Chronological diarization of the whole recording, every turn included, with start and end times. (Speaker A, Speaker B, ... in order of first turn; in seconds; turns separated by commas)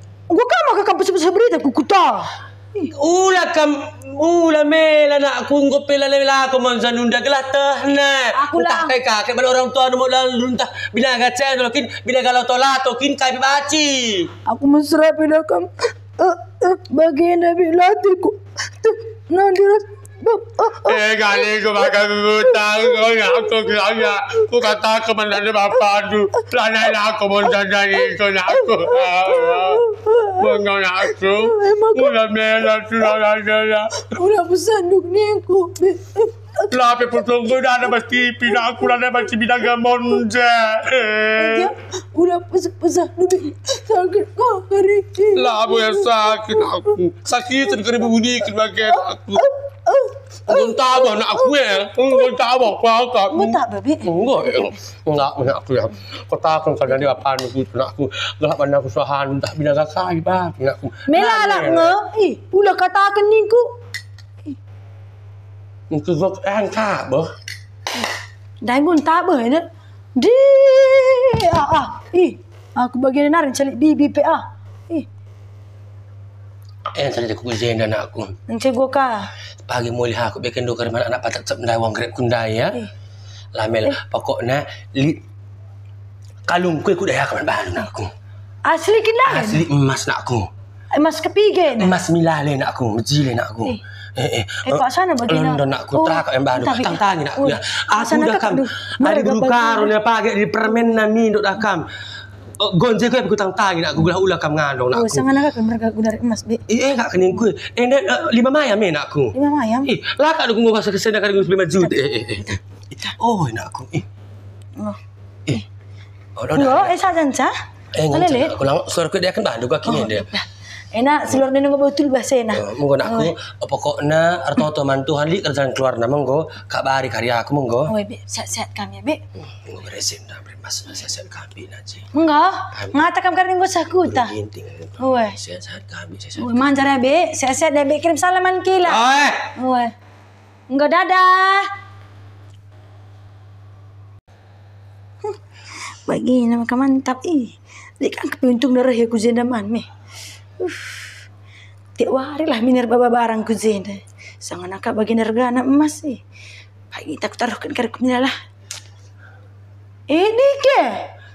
Speaker A: 0.3-2.9, Speaker B: 2.9-14.3, Speaker A: 8.3-8.9, Speaker A: 14.5-21.9, Speaker B: 20.8-34.2, Speaker A: 22.4-24.4, Speaker A: 27.5-32.2, Speaker A: 34.0-39.0, Speaker B: 36.7-41.7, Speaker A: 41.4-46.9, Speaker B: 45.3-49.5, Speaker A: 48.9-52.4, Speaker B: 50.5-62.0, Speaker A: 53.3-54.7, Speaker A: 61.1-63.7, Speaker B: 65.9-67.3, Speaker A: 68.6-75.1, Speaker B: 77.0-78.3, Speaker A: 78.5-79.3, Speaker B: 79.7-82.8, Speaker B: 83.5-85.2, Speaker B: 86.5-88.1, Speaker A: 88.7-89.6, Speaker B: 89.3-90.5, Speaker A: 90.9-92.0, Speaker B: 91.8-101.8, Speaker A: 94.7-100.0, Speaker B: 102.6-105.3, Speaker A: 104.9-106.6, Speaker B: 106.7-109.3, Speaker A: 109.3-109.9, Speaker B: 109.8-112.6, Speaker B: 113.2-114.1, Speaker B: 116.4-116.9, Speaker A: 116.5-117.5, Speaker B: 118.0-120.3, Speaker A: 118.1-118.5, Speaker A: 119.8-123.3, Speaker B: 122.5-127.9, Speaker A: 127.9-129.2, Speaker B: 129.6-132.1, Speaker A: 132.1-134.3, Speaker B: 132.7-133.0, Speaker B: 134.0-136.5, Speaker A: 135.0-135.4, Speaker A: 136.4-139.0, Speaker B: 138.8-139.5, Speaker A: 139.5-139.9, Speaker A: 140.7-141.7, Speaker A: 146.1-149.9, Speaker A: 150.6-151.2, Speaker A: 152.0-156.2, Speaker A: 156.9-158.3, Speaker A: 160.1-161.1